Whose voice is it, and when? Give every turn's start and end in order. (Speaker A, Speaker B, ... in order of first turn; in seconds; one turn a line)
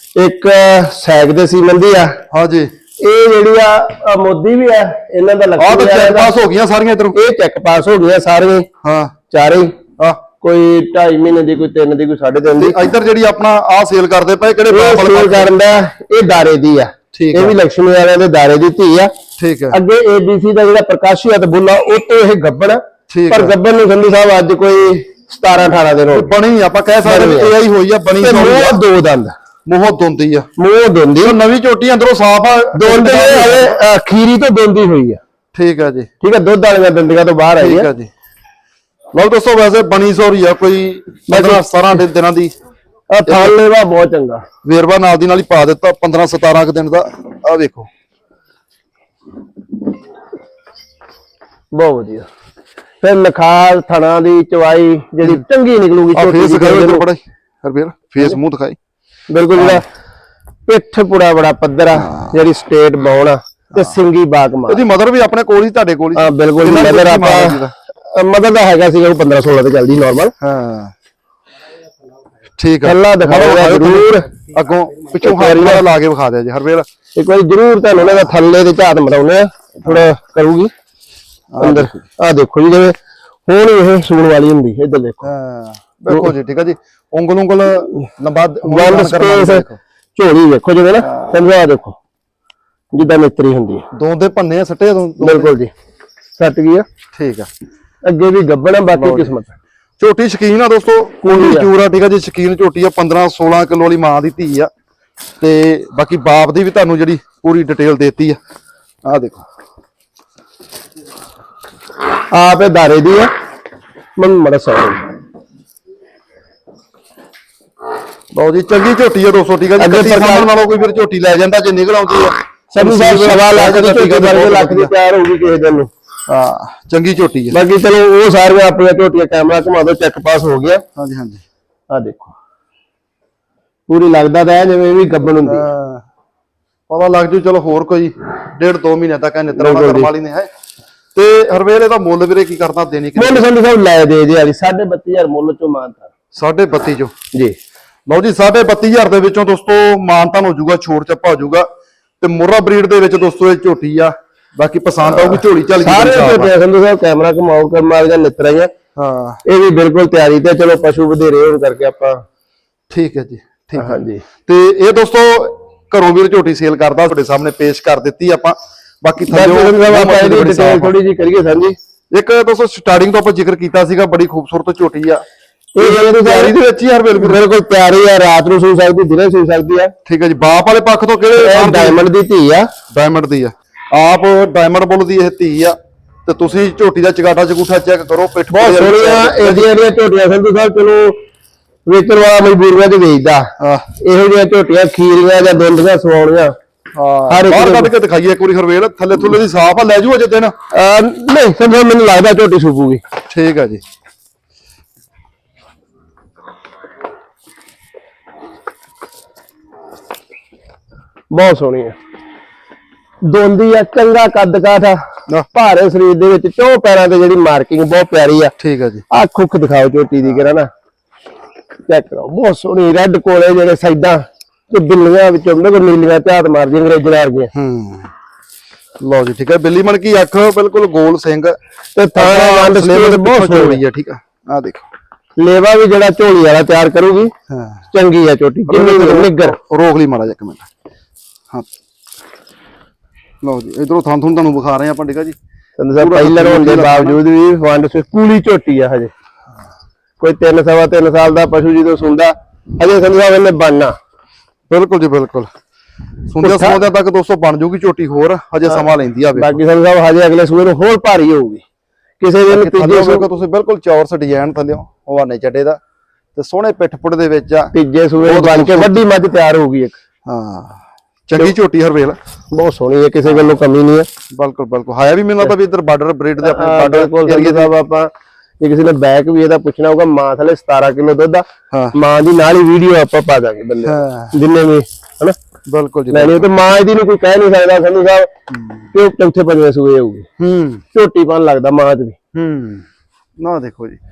Speaker A: 0.2-2.2
Speaker B: 2.3-2.7
Speaker A: 3.0-6.3
Speaker B: 5.6-7.2
Speaker A: 7.1-8.7
Speaker B: 8.8-9.1
Speaker A: 9.3-9.8
Speaker A: 10.4-12.8
Speaker B: 12.6-15.5
Speaker A: 14.7-19.1
Speaker B: 17.1-17.6
Speaker B: 19.4-19.8
Speaker A: 19.7-26.3
Speaker B: 23.1-23.6
Speaker B: 26.1-28.8
Speaker A: 27.1-27.5
Speaker A: 28.2-29.3
Speaker B: 29.7-30.5
Speaker A: 30.6-31.4
Speaker B: 31.2-33.8
Speaker A: 32.7-35.2
Speaker B: 35.5-36.1
Speaker A: 36.2-37.9
Speaker B: 37.6-38.1
Speaker B: 39.1-42.5
Speaker A: 41.3-41.6
Speaker A: 43.1-44.4
Speaker B: 43.3-43.6
Speaker B: 44.6-47.9
Speaker A: 51.7-52.3
Speaker A: 53.0-57.0
Speaker B: 56.1-58.8
Speaker A: 59.3-59.8
Speaker B: 59.6-59.8
Speaker A: 60.7-64.8
Speaker B: 61.9-62.4
Speaker B: 64.7-67.7
Speaker A: 66.2-70.3
Speaker B: 70.4-70.9
Speaker B: 72.6-76.9
Speaker A: 72.8-74.3
Speaker A: 75.2-75.8
Speaker A: 77.2-80.7
Speaker B: 81.5-82.0
Speaker A: 81.6-83.0
Speaker A: 83.5-85.3
Speaker B: 85.2-89.8
Speaker A: 88.6-92.0
Speaker B: 91.0-91.4
Speaker A: 92.9-93.9
Speaker B: 93.9-95.5
Speaker A: 95.2-95.7
Speaker A: 96.4-96.9
Speaker B: 97.2-97.5
Speaker A: 98.0-99.5
Speaker B: 99.0-99.3
Speaker B: 100.0-104.7
Speaker A: 101.2-101.7
Speaker B: 105.4-108.4
Speaker B: 109.1-109.5
Speaker A: 112.3-113.3
Speaker A: 114.2-115.1
Speaker B: 118.3-124.9
Speaker A: 119.8-120.5
Speaker A: 122.8-125.9
Speaker B: 126.3-127.6
Speaker A: 127.5-130.8
Speaker B: 131.0-131.4
Speaker A: 131.9-132.3
Speaker A: 133.9-135.6
Speaker B: 135.4-136.0
Speaker B: 136.9-140.5
Speaker A: 139.6-140.1
Speaker B: 141.2-143.4
Speaker A: 143.2-146.1
Speaker B: 146.3-147.1
Speaker B: 148.1-151.7
Speaker B: 152.2-156.5
Speaker A: 155.1-158.7
Speaker B: 159.0-159.4
Speaker A: 159.4-162.2
Speaker B: 162.9-170.9
Speaker A: 163.8-164.2
Speaker A: 169.3-171.8
Speaker B: 172.1-175.2
Speaker A: 175.8-176.6
Speaker B: 175.8-177.4
Speaker A: 177.2-179.9
Speaker B: 180.1-182.1
Speaker A: 181.4-182.7
Speaker B: 182.9-189.7
Speaker A: 188.5-191.2
Speaker A: 191.9-193.5
Speaker B: 193.6-193.9
Speaker A: 194.0-196.6
Speaker B: 196.9-200.5
Speaker A: 197.3-197.9
Speaker A: 200.7-203.0
Speaker B: 203.3-203.8
Speaker A: 211.3-211.9
Speaker A: 213.2-215.0
Speaker A: 215.5-218.5
Speaker B: 218.6-219.0
Speaker A: 219.1-220.7
Speaker A: 221.9-227.5
Speaker B: 227.5-228.1
Speaker B: 229.0-231.6
Speaker A: 231.9-233.8
Speaker B: 232.2-234.9
Speaker A: 235.4-237.3
Speaker B: 237.5-237.8
Speaker A: 237.9-239.6
Speaker B: 238.7-240.7
Speaker B: 243.4-245.4
Speaker A: 245.8-249.1
Speaker B: 246.0-247.2
Speaker A: 250.2-253.9
Speaker B: 254.7-255.5
Speaker B: 256.3-259.6
Speaker A: 256.4-256.8
Speaker A: 259.4-261.6
Speaker A: 262.2-263.3
Speaker B: 262.5-265.8
Speaker B: 266.4-269.0
Speaker A: 267.7-270.0
Speaker B: 270.3-272.2
Speaker A: 272.5-274.1
Speaker B: 274.3-277.7
Speaker A: 276.4-285.4
Speaker B: 283.8-284.4
Speaker B: 285.7-286.5
Speaker A: 286.1-288.3
Speaker A: 288.9-290.3
Speaker B: 290.4-290.8
Speaker A: 290.9-292.2
Speaker B: 292.3-292.9
Speaker B: 293.4-294.0